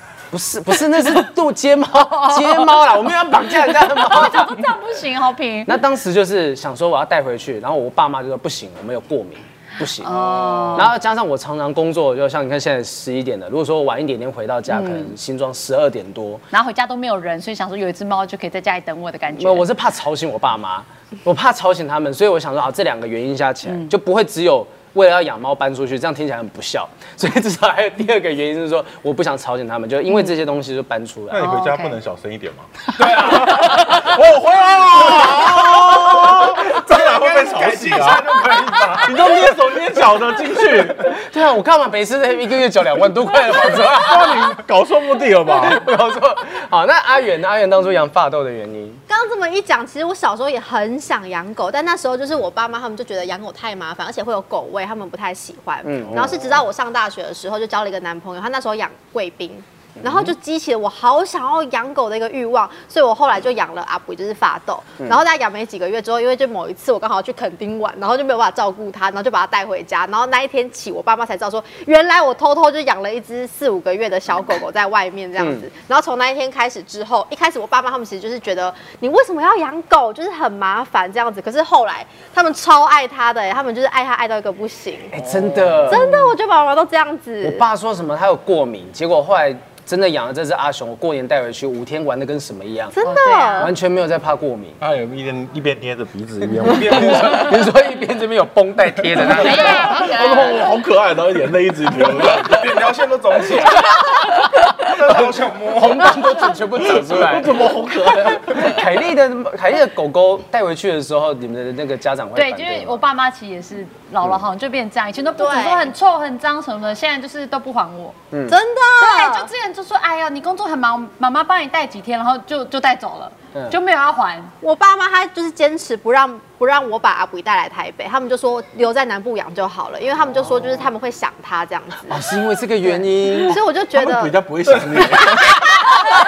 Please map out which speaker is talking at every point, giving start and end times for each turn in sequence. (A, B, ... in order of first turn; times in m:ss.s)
0:00.3-0:04.7 A
0:02.4-0:02.8 B
0:03.6-0:05.8 B
0:05.7-0:16.4 A
0:10.0-0:10.9 B
0:14.7-0:15.1 B
0:16.5-0:19.7 B
0:19.4-0:31.8 A
0:31.3-0:38.4 C
0:31.4-0:31.9 B
0:33.0-0:33.8 D
0:36.2-0:39.2 D
0:39.0-0:41.1 C
0:41.1-0:44.5 A
0:43.7-0:45.8 C
0:45.5-0:49.0 A
0:49.1-1:25.1 E
0:55.8-0:56.6 A
1:00.0-1:00.3 A
1:15.4-1:15.7 A
1:25.1-1:26.2 A
1:25.3-1:25.9 D
1:25.9-1:27.6 E
1:27.4-1:33.0 A
1:32.9-1:33.7 E
1:33.0-1:33.7 B
1:33.6-1:34.8 A
1:34.8-1:37.5 C
1:36.5-1:40.2 A
1:39.3-1:40.5 B
1:39.3-1:42.8 C
1:42.0-1:44.1 D
1:44.6-1:47.6 A
1:44.8-1:46.3 D
1:46.8-1:48.8 C
1:48.2-1:53.0 A
1:52.4-1:58.2 B
1:55.4-1:55.9 E
1:58.3-1:58.6 A
1:58.5-1:59.5 E
1:59.0-2:04.5 B
2:04.6-2:12.2 E
2:12.1-2:13.6 A
2:12.9-2:14.4 E
2:13.9-2:15.6 C
2:14.8-2:15.2 D